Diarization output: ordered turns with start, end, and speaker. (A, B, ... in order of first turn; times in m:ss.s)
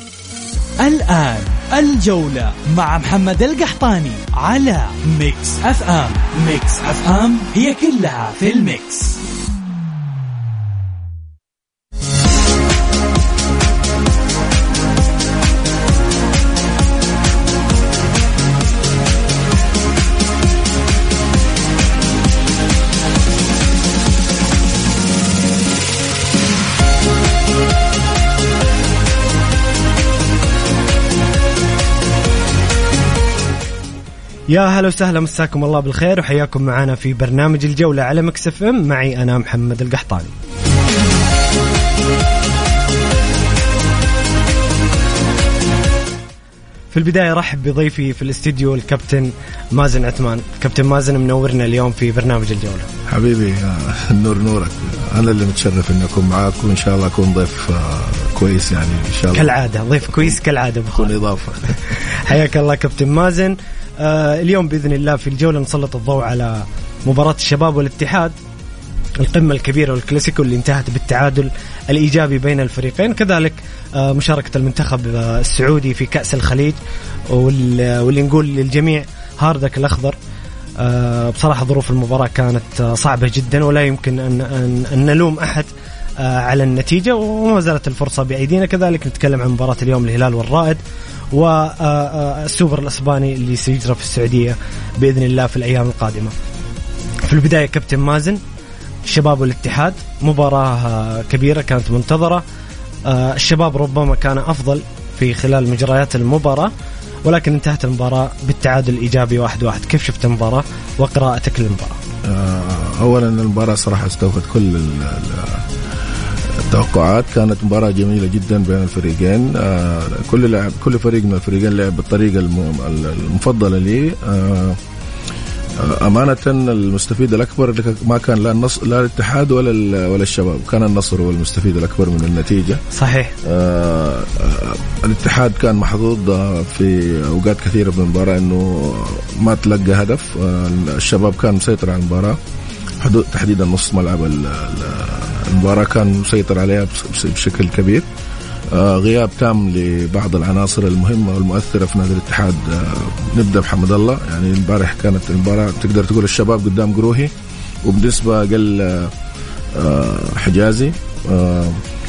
0:00.8-0:09.2 A
0:34.5-0:40.3 B
0:46.9-0:52.9 B
0:53.1-1:00.4 C
0:59.3-1:01.2 B
1:00.9-1:01.8 C
1:02.1-1:08.3 B
1:09.2-1:16.8 B
1:17.3-1:20.2 B
1:20.8-1:30.8 B
1:31.3-1:36.3 B
1:37.2-1:38.4 B
1:39.0-1:42.4 B
1:43.0-1:46.7 B
1:47.2-1:52.0 B
1:52.2-1:55.6 C
1:56.5-2:04.8 C
2:05.8-2:12.8 C
2:12.9-2:13.3 B
2:13.4-2:22.4 C
2:23.0-2:28.0 C
2:28.7-2:37.3 C
2:37.8-2:39.1 C
2:39.7-2:41.8 C